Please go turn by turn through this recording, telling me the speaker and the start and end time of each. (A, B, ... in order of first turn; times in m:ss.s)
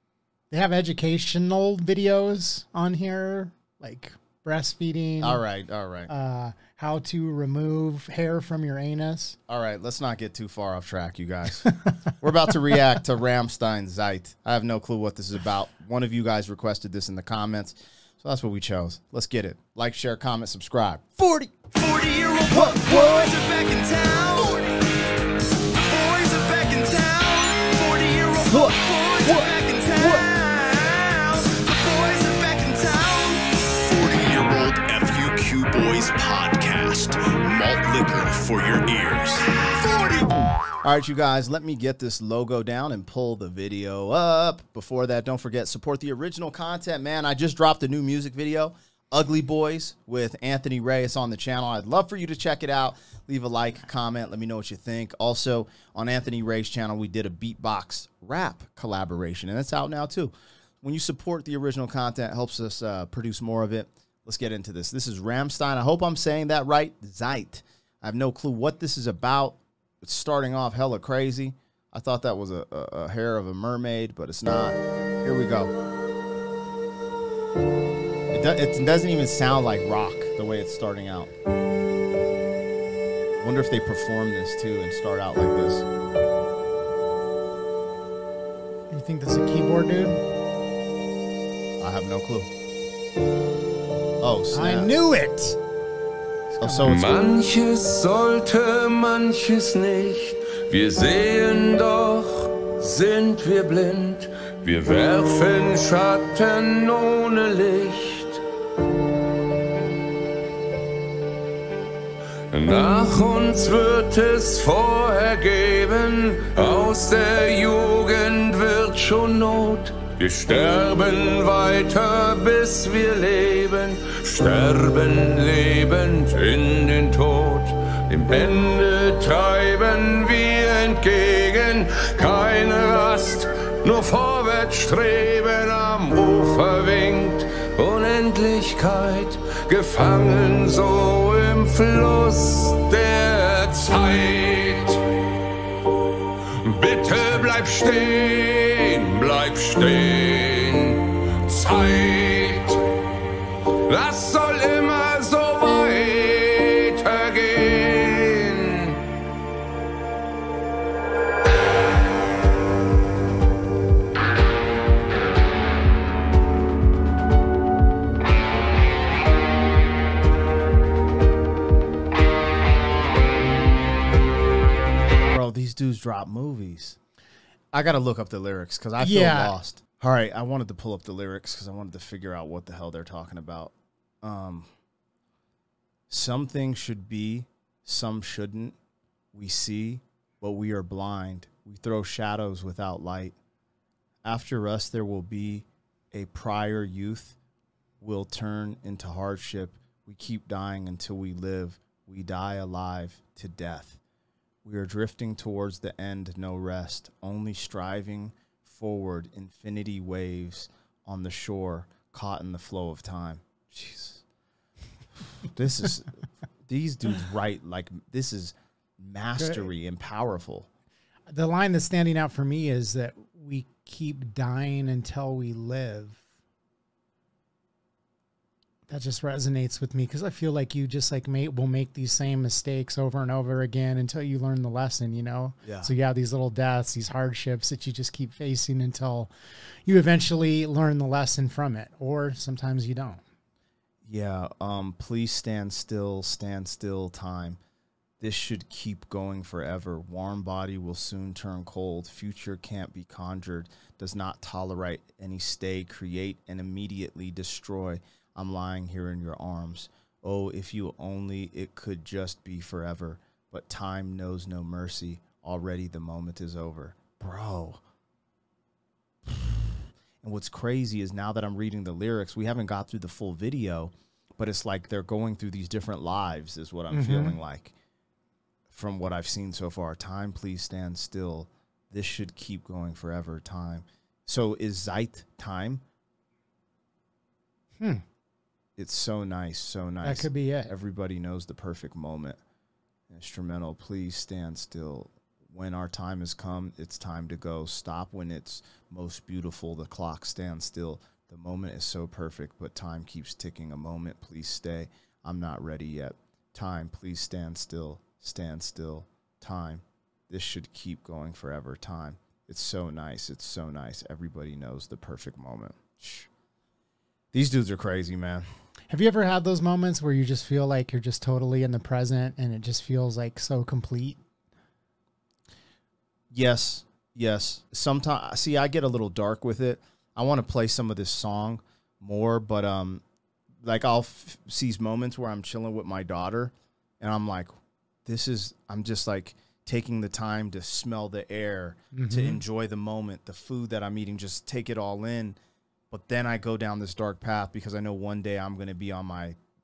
0:00.5-0:05.4 A
0:05.2-0:06.1 B
0:06.1-0:09.4 A
0:09.5-0:21.6 B
0:21.7-0:24.8 C
0:22.5-0:23.3 B
0:25.8-0:40.4 C
0:28.5-0:30.3 B
0:40.8-1:15.7 B
1:18.3-1:21.3 B
1:23.4-1:25.8 B
1:28.9-1:30.2 A
1:31.8-1:32.5 B
1:34.2-1:34.9 B
1:34.5-1:35.6 A
1:36.5-1:37.2 B
1:36.6-1:36.9 A
1:36.8-1:48.4 D
1:52.5-2:25.1 D
2:26.5-2:32.9 D
2:33.8-2:39.1 D
2:55.3-2:57.0 B
2:57.7-3:04.7 B
2:59.0-2:59.6 A
3:06.1-3:08.8 B
3:09.3-3:13.4 B
3:14.2-3:17.4 B
3:18.0-3:24.0 B
3:24.6-3:34.2 B
3:35.3-3:40.7 B
3:39.4-3:39.7 A
3:41.3-3:46.2 A
3:48.9-3:59.3 A
3:55.6-3:55.9 B
3:59.8-4:03.2 A
4:04.0-4:07.6 B
4:08.2-4:27.8 B
4:29.3-4:29.5 B
4:30.2-4:37.7 B
4:36.9-4:37.4 A
4:38.7-4:45.8 B
4:48.8-4:52.4 B
4:50.0-4:50.7 A
4:53.1-5:16.3 B
5:17.3-5:18.4 B
5:18.9-5:24.2 A
5:26.3-5:33.0 B
5:33.6-5:37.5 B
5:38.0-5:45.4 B
5:41.9-5:42.4 A
5:45.9-5:49.4 B